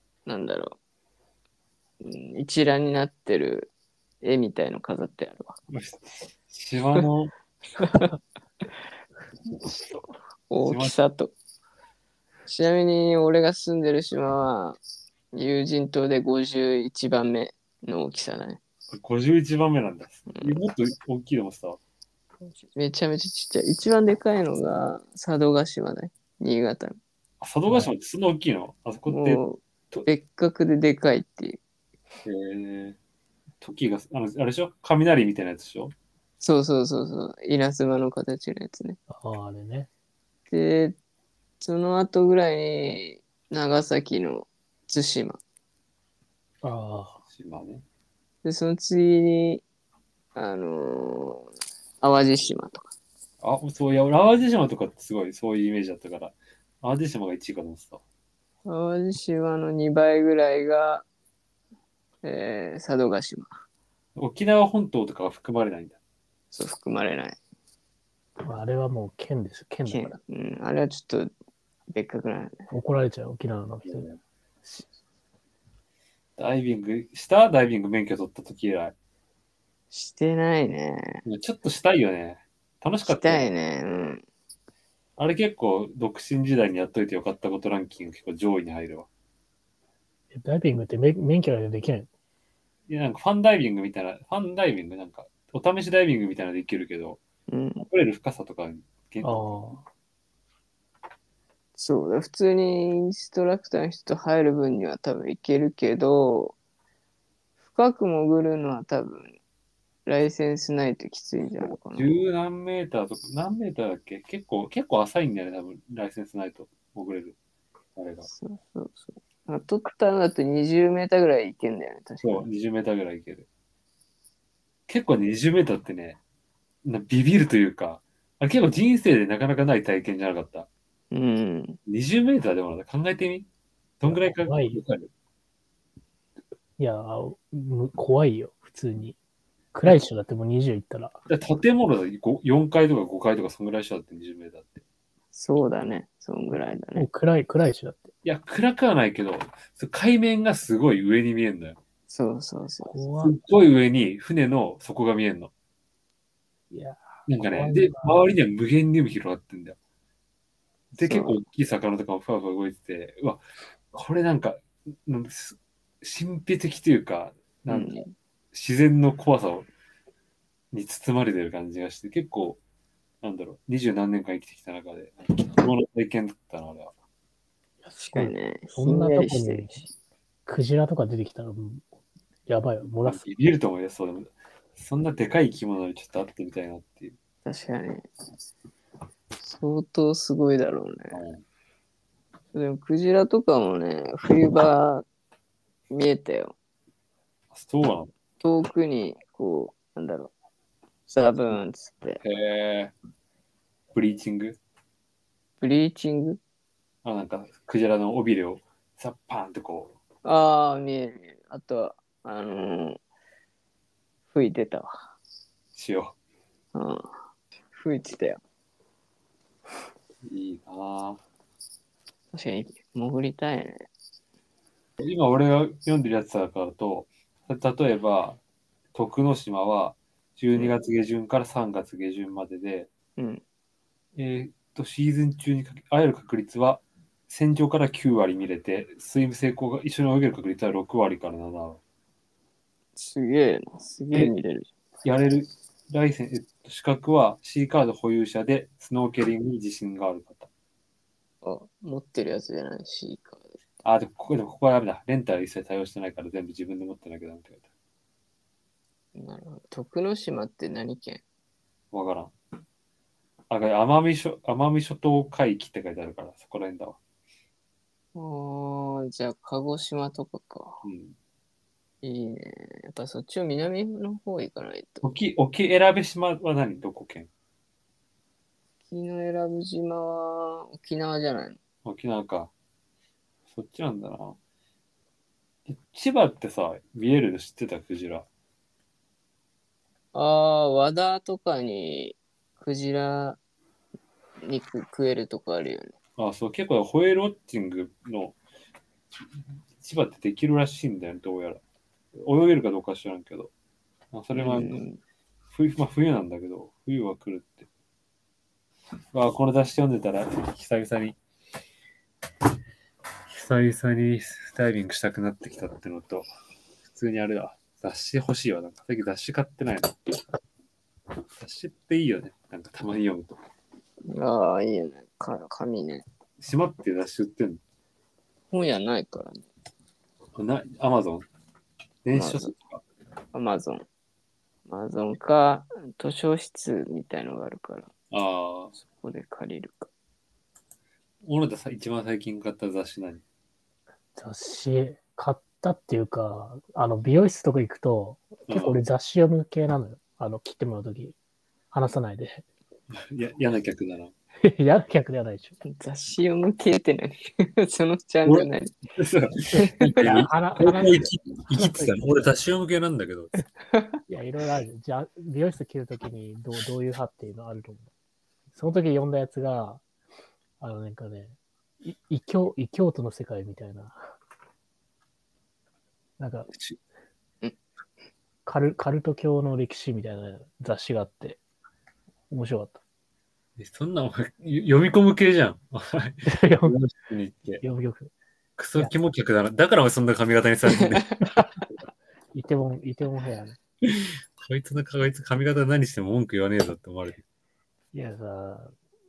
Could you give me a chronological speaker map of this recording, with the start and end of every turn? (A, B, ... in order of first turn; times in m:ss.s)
0:00.2-0:00.8 A
0:02.0-0:03.7 A
0:04.2-0:05.5 A
0:05.7-0:07.3 B
0:07.8-0:08.1 A
0:10.5-0:11.3 A
0:10.6-0:11.0 B
0:12.4-0:14.8 A
0:15.3-0:18.6 A
0:18.9-0:21.8 B
0:22.8-0:27.0 A
0:27.4-0:30.0 B
0:29.1-0:31.6 A
0:32.2-0:33.0 B
0:33.6-0:35.9 B
0:36.4-0:39.0 A
0:39.1-0:39.9 C
0:40.5-0:41.0 A
0:41.6-0:45.4 A
0:46.6-0:47.2 C
0:47.3-0:47.8 B
0:48.4-0:49.6 A
0:50.3-0:51.5 A
0:52.0-0:52.9 A
0:53.4-0:58.0 B
0:58.6-1:01.0 A
1:02.2-1:03.5 A
1:04.2-1:06.0 B
1:06.5-1:07.4 A
1:08.4-1:10.2 C
1:09.8-1:11.3 A
1:11.9-1:12.7 A
1:12.7-1:14.0 C
1:13.8-1:14.2 B
1:16.4-1:18.9 B
1:19.9-1:21.2 A
1:21.2-1:23.5 B
1:23.0-1:24.2 A
1:25.2-1:29.1 B
1:30.3-1:32.1 C
1:32.9-1:37.2 B
1:37.5-1:37.8 A
1:37.8-1:39.5 B
1:39.2-1:39.8 C
1:41.8-1:46.6 A
1:47.6-1:49.4 A
1:50.0-1:52.1 A
1:51.6-1:57.4 B
1:58.0-1:58.3 B
1:58.2-2:02.4 A
2:02.2-2:03.4 B
2:04.9-2:06.2 B
2:06.8-2:10.7 B
2:11.1-2:11.8 A
2:11.8-2:13.5 B
2:14.0-2:15.1 B
2:14.0-2:14.8 C
2:16.8-2:19.2 C
2:19.7-2:21.2 C
2:21.3-2:24.8 B
2:25.3-2:27.1 A
2:27.0-2:28.1 C
2:28.2-2:31.8 B
2:32.1-2:32.9 A
2:32.9-2:33.4 C
2:33.2-2:35.5 B
2:36.7-2:38.2 C
2:37.3-2:39.8 B
2:40.9-2:47.9 B
2:41.0-2:41.4 A
2:47.7-2:48.1 A
2:48.5-2:49.7 B
2:50.7-2:52.6 B
2:53.2-2:56.9 B
2:57.8-2:59.8 C
2:58.0-2:59.9 A
3:00.4-3:01.8 C
3:02.5-3:03.2 C
3:03.0-3:07.2 B
3:07.4-3:08.0 A
3:09.4-3:11.2 A
3:11.1-3:11.4 B
3:12.5-3:15.0 A
3:15.9-3:16.5 A
3:17.5-3:18.1 B
3:18.4-3:20.3 A
3:21.1-3:22.2 A
3:22.2-3:22.9 B
3:23.9-3:24.6 B
3:25.6-3:26.4 A
3:27.0-3:29.9 B
3:30.2-3:33.0 A
3:34.3-3:34.9 A
3:35.7-3:36.1 B
3:36.7-3:37.1 A
3:37.7-3:38.4 A
3:40.2-3:41.2 B
3:42.3-3:43.9 A
3:45.0-3:48.4 B
3:48.9-3:52.9 B
3:53.2-3:53.4 A
3:54.1-4:01.8 B
4:03.0-4:04.7 A
4:05.0-4:10.5 B
4:11.4-4:13.6 A
4:13.8-4:17.6 B
4:19.1-4:21.2 A
4:21.9-4:22.3 B
4:23.5-4:27.0 B
4:28.1-4:30.8 A
4:30.8-4:31.1 B
4:32.0-4:35.1 A
4:35.0-4:37.3 B
4:38.9-4:41.6 A
4:41.8-4:42.5 B
4:43.5-4:44.4 B
4:45.6-4:48.3 B
4:50.1-4:53.4 A
4:54.4-4:55.9 A
4:56.2-4:58.4 B
4:59.8-5:01.6 B
5:02.1-5:03.5 B
5:04.1-5:04.8 B
5:04.3-5:05.0 A
5:05.5-5:07.7 B
5:09.1-5:11.2 B
5:13.3-5:16.3 B
5:16.8-5:20.1 B
5:21.4-5:23.4 B
5:24.1-5:26.0 A
5:26.4-5:27.6 B
5:28.5-5:29.4 A
5:30.3-5:31.3 B
5:32.0-5:32.8 B
5:32.1-5:32.5 A
5:33.3-5:33.8 A
5:34.7-5:37.9 A
5:38.1-5:38.7 B
5:38.9-5:39.9 A
5:41.2-5:43.2 B
5:44.2-5:51.2 C
5:48.5-5:48.8 B
5:51.7-5:52.4 C
5:52.9-5:54.1 B
5:54.4-5:55.6 C
5:55.6-5:58.8 A
5:58.2-6:03.4 B
5:59.6-6:02.0 C
5:59.7-5:59.9 A
6:03.7-6:04.0 A
6:04.1-6:07.9 C
6:08.5-6:09.8 C
6:10.6-6:14.1 C
6:16.2-6:16.5 C
6:18.4-6:21.4 C
6:22.3-6:22.8 C
6:23.6-6:27.6 B
6:26.2-6:26.8 C
6:27.6-6:28.1 C
6:28.6-6:31.2 B
6:32.3-6:33.6 C
6:33.8-6:37.2 B
6:37.9-6:38.7 C